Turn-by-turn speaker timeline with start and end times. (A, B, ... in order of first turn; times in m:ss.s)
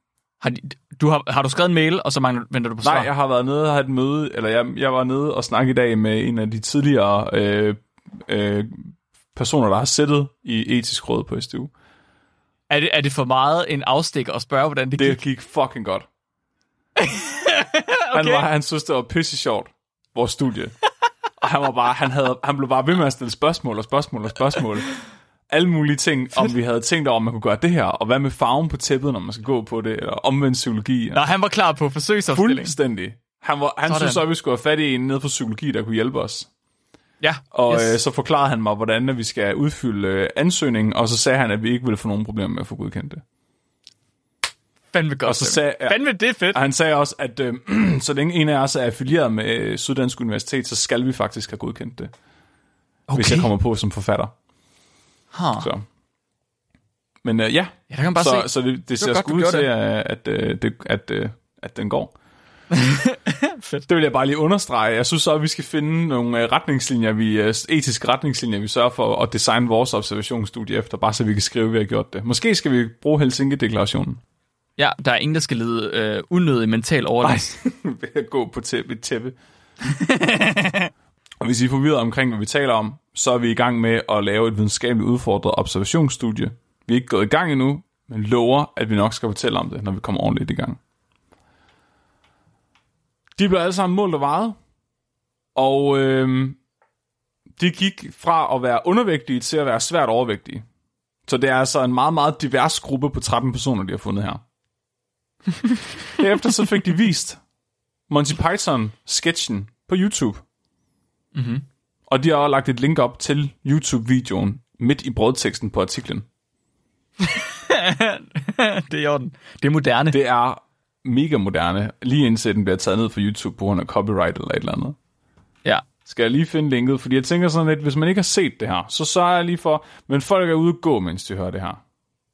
0:00.4-0:03.1 A
0:02.8-0:11.7 B
0:12.7-0:15.2 A
0:15.0-0:16.1 B
0:17.0-0:18.4 A
0:18.1-0:20.8 B
0:21.4-0:24.9 B
0:25.5-0:31.2 B
0:31.1-0:32.7 A
0:32.3-0:36.5 B
0:33.9-0:34.2 A
0:37.2-0:38.0 A
0:37.5-0:43.2 B
0:44.9-0:46.6 A
0:45.2-0:46.0 B
0:46.5-0:52.1 B
0:53.1-0:53.5 A
0:53.2-0:54.3 B
0:55.3-0:55.7 A
0:55.6-0:55.8 B
0:57.2-1:02.1 B
0:57.9-0:59.7 A
1:02.7-1:03.8 A
1:03.9-1:14.2 B
1:14.8-1:17.6 A
1:17.2-1:19.4 B
1:19.8-1:20.9 A
1:21.4-1:30.8 B
1:33.4-1:34.6 B
1:35.6-1:36.6 B
1:37.6-1:40.6 B
1:41.3-1:44.4 B
1:46.1-1:47.4 B
1:48.1-1:50.4 B
1:51.3-1:51.6 A
1:52.1-1:56.3 B
1:57.2-2:00.2 A
2:00.1-2:05.0 B
2:06.1-2:11.8 B